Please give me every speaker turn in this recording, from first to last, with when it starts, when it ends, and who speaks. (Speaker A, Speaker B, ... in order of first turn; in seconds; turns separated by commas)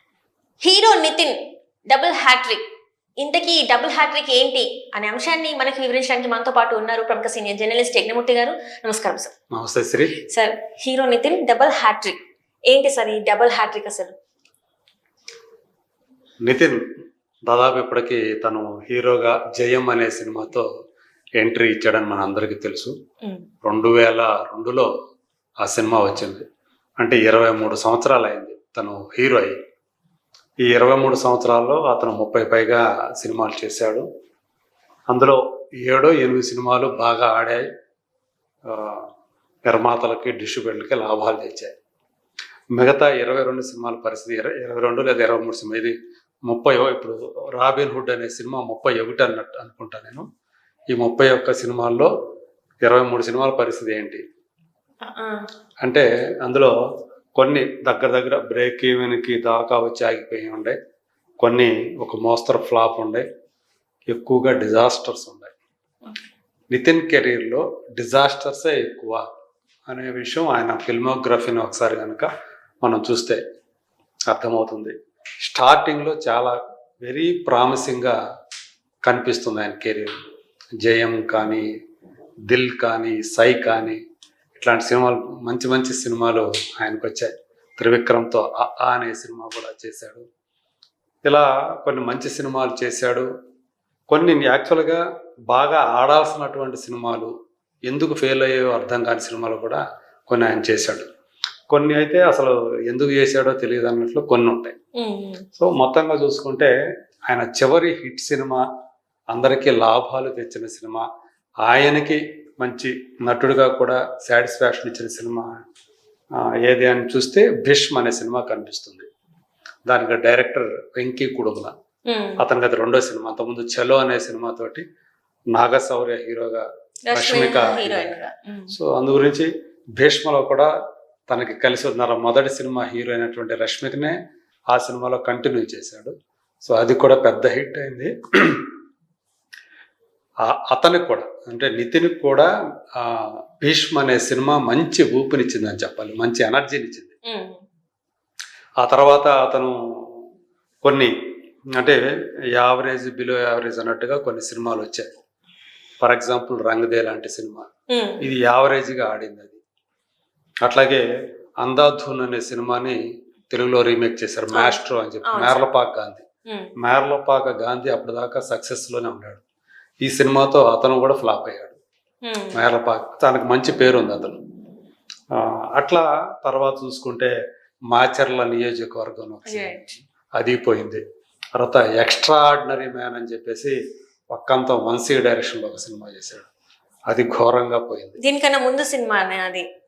Speaker A: 0.6-1.4, Speaker A: 1.9-2.6, Speaker A: 3.2-9.3, Speaker B: 9.5-10.2, Speaker A: 10.3-14.1, Speaker B: 16.4-16.8, Speaker B: 17.5-20.7, Speaker B: 21.4-22.9, Speaker B: 23.6-24.9, Speaker B: 25.6-26.4, Speaker B: 27.0-29.6, Speaker B: 30.6-34.0, Speaker B: 35.1-37.7, Speaker B: 38.7-39.1, Speaker B: 39.7-41.7, Speaker B: 42.8-46.0, Speaker B: 46.5-50.3, Speaker B: 50.9-52.1, Speaker B: 52.8-54.2, Speaker A: 55.0-55.4, Speaker B: 55.8-56.7, Speaker B: 57.4-60.8, Speaker B: 61.4-63.3, Speaker B: 64.1-65.5, Speaker B: 66.7-69.2, Speaker B: 69.9-72.3, Speaker B: 72.8-73.4, Speaker B: 74.3-75.0, Speaker B: 75.5-78.2, Speaker B: 79.1-80.2, Speaker B: 80.8-81.7, Speaker B: 82.5-84.0, Speaker B: 84.6-90.2, Speaker B: 91.3-93.3, Speaker B: 94.1-97.3, Speaker B: 97.9-101.1, Speaker B: 101.7-104.7, Speaker A: 105.0-105.4, Speaker B: 105.6-106.7, Speaker B: 107.3-108.6, Speaker B: 109.3-111.0, Speaker B: 111.7-115.5, Speaker B: 116.7-119.1, Speaker B: 119.9-121.7, Speaker A: 122.1-122.4, Speaker B: 122.4-124.8, Speaker B: 125.5-128.2, Speaker A: 127.1-128.7, Speaker B: 128.7-130.7, Speaker B: 131.3-134.2, Speaker B: 134.7-136.1, Speaker B: 136.7-138.7, Speaker B: 140.5-147.1, Speaker A: 147.3-147.6, Speaker B: 148.8-149.7, Speaker B: 150.8-151.1, Speaker B: 152.6-155.1, Speaker B: 156.0-157.7, Speaker A: 157.9-158.2, Speaker B: 158.2-159.6, Speaker B: 160.7-161.0, Speaker B: 161.6-163.0, Speaker B: 163.5-166.2, Speaker A: 164.5-165.6, Speaker A: 166.5-166.7, Speaker B: 166.8-169.4, Speaker B: 170.0-171.8, Speaker A: 172.3-172.6, Speaker B: 172.6-174.4, Speaker B: 175.3-177.3, Speaker B: 177.9-181.0, Speaker A: 179.5-179.8, Speaker B: 181.6-183.7, Speaker B: 184.3-186.5, Speaker B: 187.1-188.2, Speaker A: 188.2-189.7